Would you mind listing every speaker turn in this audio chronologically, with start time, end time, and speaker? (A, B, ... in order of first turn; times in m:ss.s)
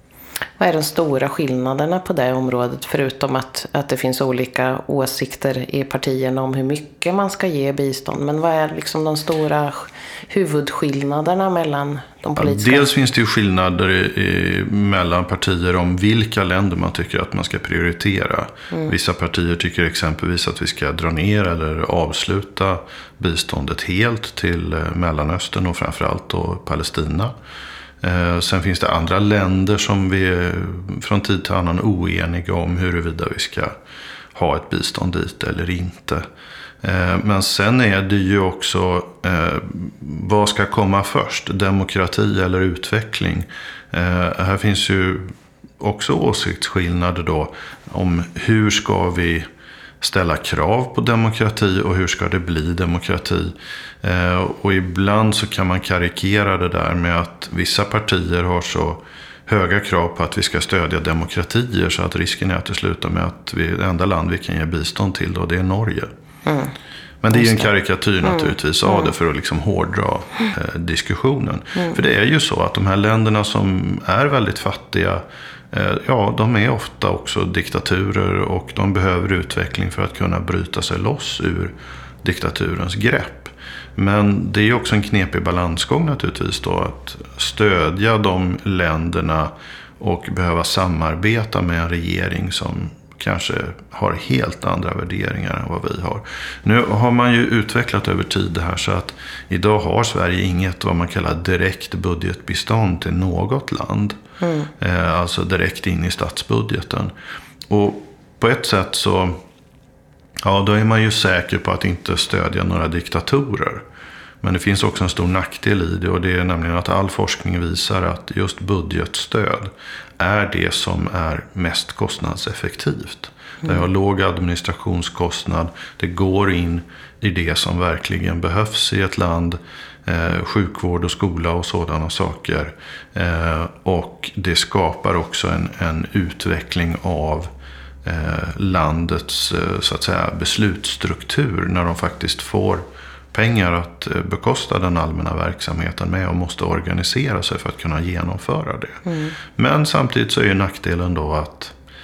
0:00.6-0:12.9 A
0:12.4-0:27.3 B
0:28.0-0:33.7 B
0:34.3-0:36.2 B
0:36.8-0:49.5 B
0:50.0-1:06.1 B
1:06.4-1:06.7 A
1:07.2-1:44.2 B
1:07.3-1:07.7 A
1:08.2-1:09.0 A
1:44.4-1:44.7 A
1:44.8-1:47.1 B
1:47.7-1:49.4 B
1:50.4-1:53.8 B
1:54.4-2:17.5 B
2:18.0-2:31.8 B
2:29.0-2:29.3 A